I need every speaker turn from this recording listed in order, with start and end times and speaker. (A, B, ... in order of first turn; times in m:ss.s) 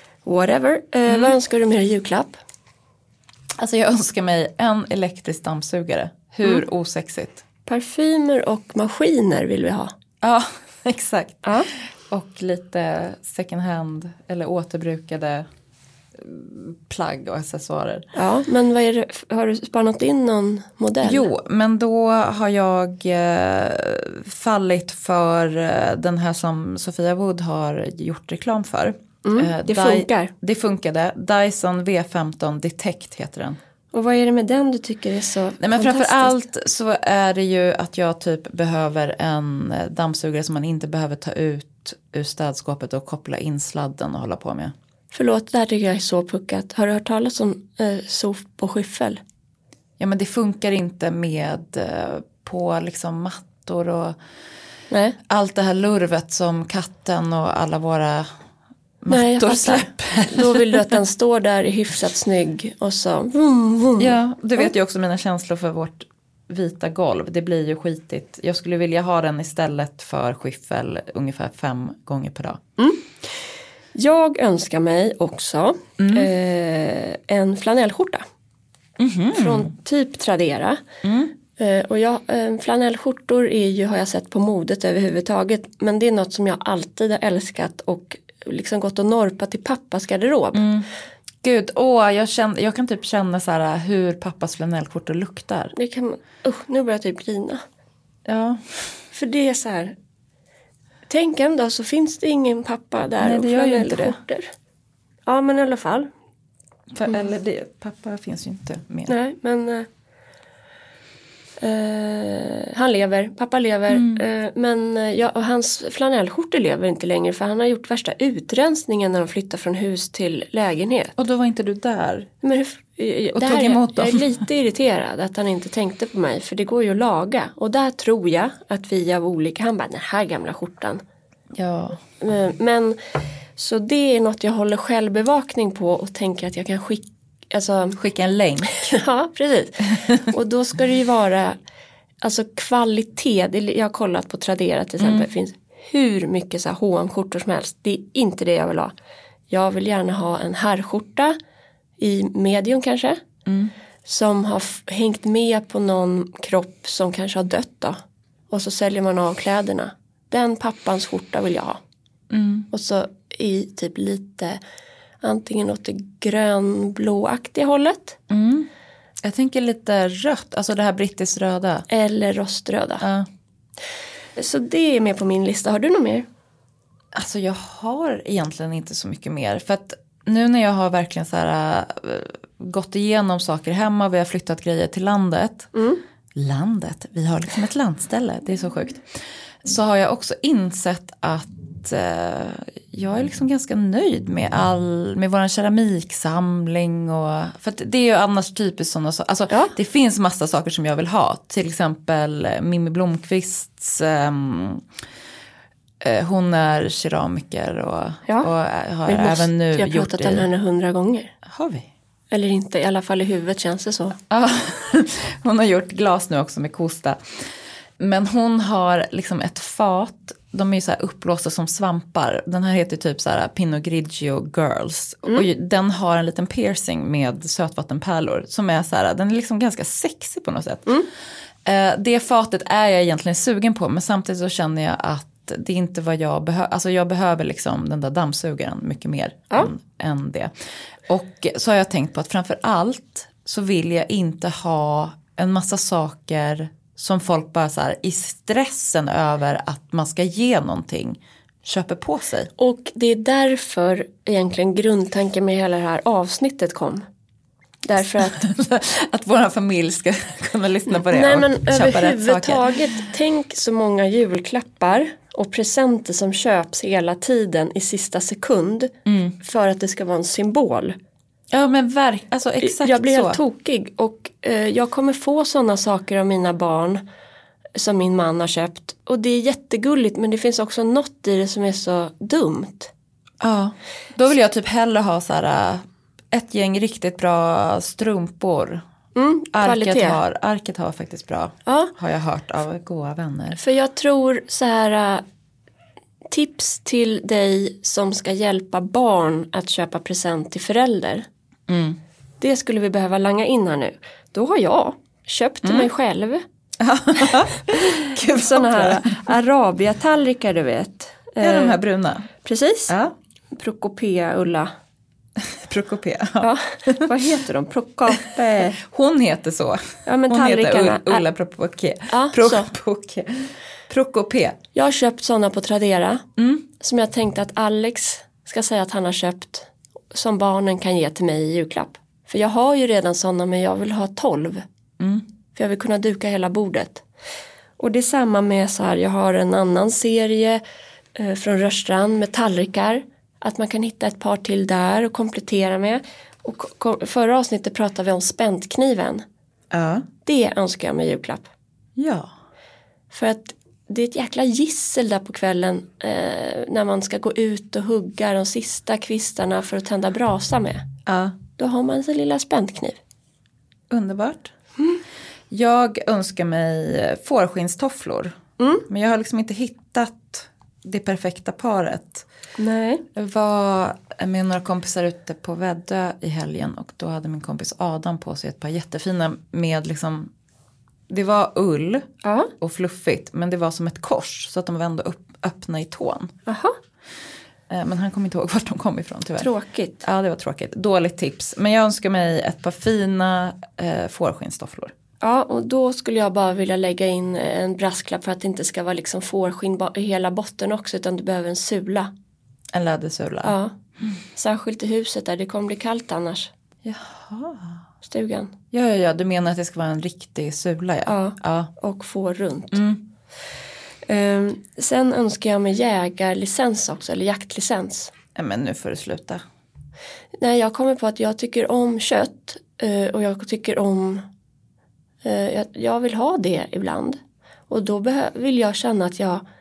0:00.2-0:02.4 A
0:03.6-0:07.4 B
0:07.6-0:09.9 A
0:10.2-0:15.5 B
0:11.4-0:11.7 A
0:16.2-0:18.1 B
0:18.1-0:21.3 A
0:21.0-0:33.6 B
0:29.2-0:30.3 A
0:33.9-0:36.4 A
0:35.6-0:44.7 B
0:45.1-0:49.2 A
0:50.0-0:54.2 B
0:54.9-0:55.2 A
0:55.3-0:58.3 B
0:59.0-1:00.9 B
0:59.1-1:04.7 A
1:04.0-1:12.6 B
1:12.8-1:13.1 A
1:13.9-1:18.2 A
1:16.0-1:16.3 B
1:19.0-1:19.7 B
1:19.3-1:20.8 A
1:21.0-1:21.3 B
1:21.5-1:30.7 A
1:30.5-1:30.9 B
1:31.4-1:35.7 B
1:35.7-1:37.6 A
1:38.2-1:38.9 B
1:39.1-1:39.9 A
1:41.1-1:44.5 A
1:43.2-1:44.2 B
1:45.2-1:46.1 A
1:46.9-1:49.1 B
1:49.1-1:49.9 A
1:51.6-2:01.1 A
1:53.9-1:54.2 B
2:01.2-2:02.3 B
2:02.4-2:11.0 A
2:03.3-2:04.4 B
2:11.5-2:12.0 B
2:12.2-2:13.0 A
2:13.5-2:18.0 A
2:18.0-2:19.0 B
2:18.7-2:21.6 A
2:22.2-2:28.9 A
2:29.5-2:31.4 A
2:32.0-2:33.2 A
2:33.4-2:33.7 B
2:34.0-2:38.0 A
2:38.5-2:41.8 A
2:42.3-2:42.7 B
2:42.7-2:44.6 A
2:45.2-2:48.2 A
2:48.3-2:48.7 B
2:49.2-2:51.8 B
2:51.9-2:53.0 A
2:53.0-2:53.3 B
2:54.4-2:56.3 A
2:57.1-3:05.7 B
3:05.7-3:06.0 A
3:06.3-3:09.0 B
3:09.6-3:24.8 B
3:26.0-3:30.5 B
3:29.1-3:31.3 A
3:31.4-3:31.9 B
3:32.3-3:34.2 A
3:34.3-3:37.2 B
3:38.0-3:51.0 B
3:51.6-4:00.5 B
4:01.1-4:12.5 B
4:12.6-4:17.0 A
4:17.8-4:18.4 A
4:18.2-4:22.8 B
4:20.9-4:31.0 A
4:29.0-4:29.4 B
4:31.5-4:33.4 B
4:32.6-4:37.0 A
4:37.8-4:42.9 A
4:43.4-4:48.8 B
4:49.1-4:50.2 A
4:49.5-4:53.6 B
4:51.6-4:51.9 A
4:53.5-4:55.2 A
4:56.3-5:01.2 A
5:01.7-5:02.0 B
5:02.4-5:06.4 A
5:05.6-5:05.9 B
5:06.8-5:09.2 B
5:07.2-5:11.8 A
5:11.4-5:12.3 B
5:12.4-5:12.9 A
5:12.9-5:13.1 B
5:13.5-5:14.7 A
5:15.5-5:17.1 B
5:16.4-5:18.7 A
5:18.1-5:24.6 B
5:20.0-5:21.2 A
5:22.1-5:22.7 A
5:24.7-5:26.2 A
5:26.4-5:26.7 B
5:26.8-5:34.6 A
5:35.0-5:35.2 B
5:35.5-5:37.0 A
5:37.8-5:40.6 A
5:41.1-5:49.2 A
5:49.7-5:50.1 B
5:50.2-5:51.4 A
5:52.0-5:52.3 B
5:53.1-6:00.8 A
6:01.0-6:01.4 B
6:01.6-6:03.0 A
6:03.9-6:04.5 B
6:05.5-6:12.2 B
6:08.6-6:08.9 A
6:12.6-6:13.0 A
6:13.1-6:20.3 B
6:21.1-6:26.3 B
6:22.2-6:22.5 A
6:26.4-6:26.7 A
6:27.7-6:34.9 B
6:29.4-6:30.0 A
6:35.2-6:42.1 A
6:42.7-6:43.6 B
6:43.4-6:43.7 A
6:44.3-6:46.5 A
6:46.8-6:47.8 B
6:48.0-6:48.5 A
6:48.7-6:51.7 B
6:51.1-6:52.8 A
6:52.7-6:53.0 B
6:54.1-6:58.1 A
6:58.3-6:59.4 B
7:00.4-7:04.2 A
7:05.2-7:09.4 A